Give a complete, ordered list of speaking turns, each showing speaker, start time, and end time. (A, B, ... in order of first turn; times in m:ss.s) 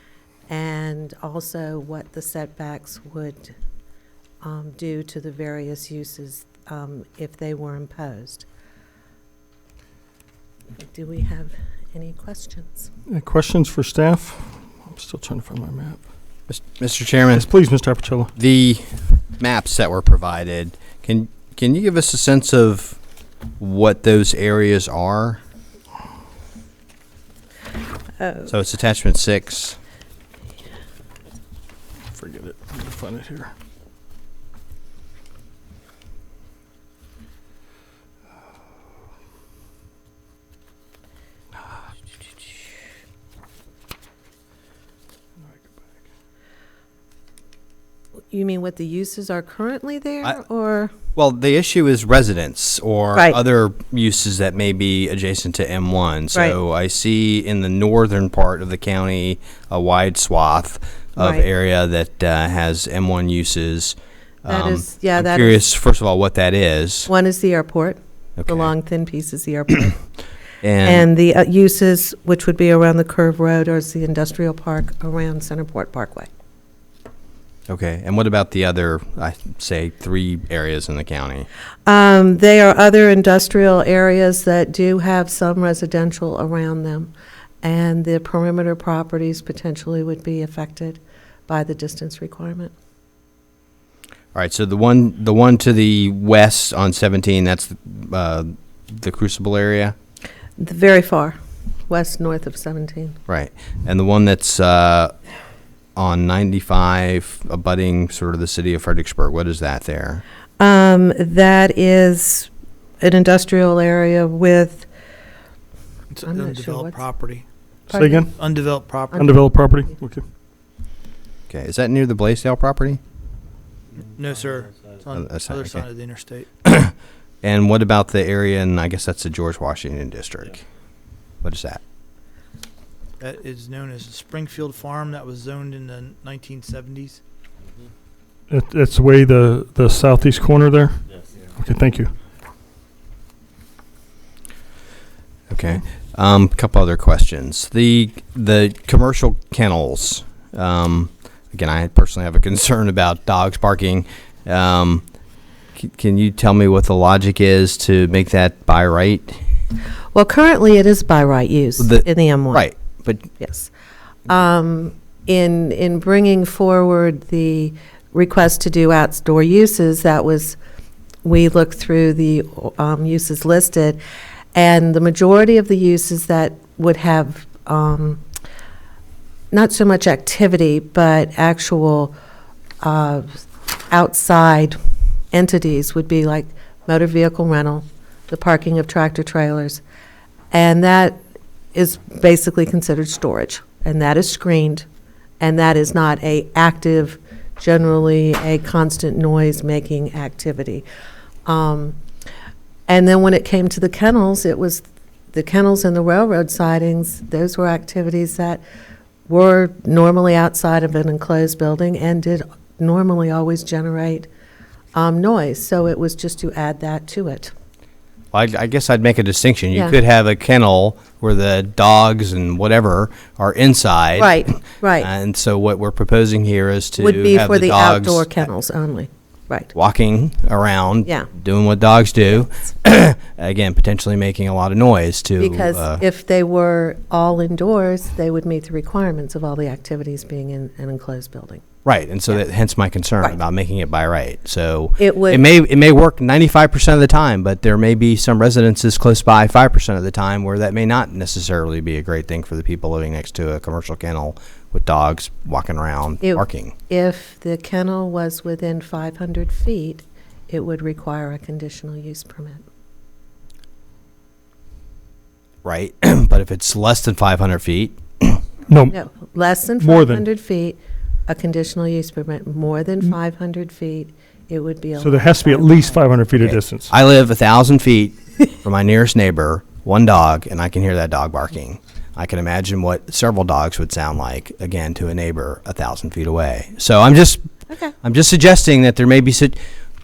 0:00.5-0:03.5 A
0:04.4-0:08.5 A
0:10.9-0:12.9 A
0:13.1-0:16.0 B
0:16.5-0:17.5 C
0:17.4-0:18.3 B
0:18.4-0:23.0 C
0:23.6-0:25.4 C
0:28.2-0:28.5 A
0:28.5-0:29.8 C
0:32.1-0:33.5 B
0:48.3-0:50.9 A
0:51.2-1:07.1 C
1:01.2-1:01.4 A
1:04.5-1:05.6 A
1:07.1-1:10.0 A
1:08.4-1:08.7 C
1:10.6-1:11.1 C
1:10.8-1:16.3 A
1:17.7-1:21.5 C
1:21.8-1:32.7 A
1:34.3-1:39.9 C
1:40.6-1:41.4 A
1:41.9-1:43.2 A
1:43.3-1:45.1 C
1:46.0-1:50.2 C
1:50.6-1:52.5 A
1:53.0-1:54.9 A
1:56.1-1:57.4 D
1:56.2-1:57.0 A
1:57.9-1:58.3 A
1:58.0-1:59.4 D
1:58.0-1:58.3 B
1:59.1-1:59.4 A
1:59.2-2:00.3 B
2:01.5-2:03.0 C
2:04.0-2:06.5 D
2:05.1-2:05.8 C
2:06.6-2:10.6 C
2:11.4-2:11.8 C
2:13.2-2:17.2 D
2:18.5-2:22.1 B
2:25.5-2:35.0 C
2:35.8-2:39.4 C
2:40.1-2:42.6 A
2:41.8-2:43.2 C
2:43.4-2:43.7 A
2:44.3-2:50.6 A
2:51.2-2:54.0 A
2:54.5-2:58.2 A
2:59.5-3:02.1 A
3:02.8-3:04.8 A
3:05.3-3:09.8 A
3:10.5-3:11.2 A
3:11.7-3:14.9 A
3:15.4-3:20.8 A
3:21.5-3:22.0 A
3:22.9-3:28.6 A
3:29.3-3:34.3 A
3:35.0-3:37.5 A
3:38.3-3:48.4 C
3:44.2-3:45.1 A
3:47.0-3:49.7 A
3:49.7-3:56.0 C
3:55.4-4:01.6 A
4:01.8-4:16.8 C
4:05.0-4:05.4 A
4:16.2-4:22.6 A
4:25.6-4:28.4 C
4:28.7-4:29.0 B
4:28.9-4:36.0 A
4:29.8-4:30.2 B
4:35.0-4:36.9 B
4:36.4-4:47.5 C
4:48.0-4:49.6 C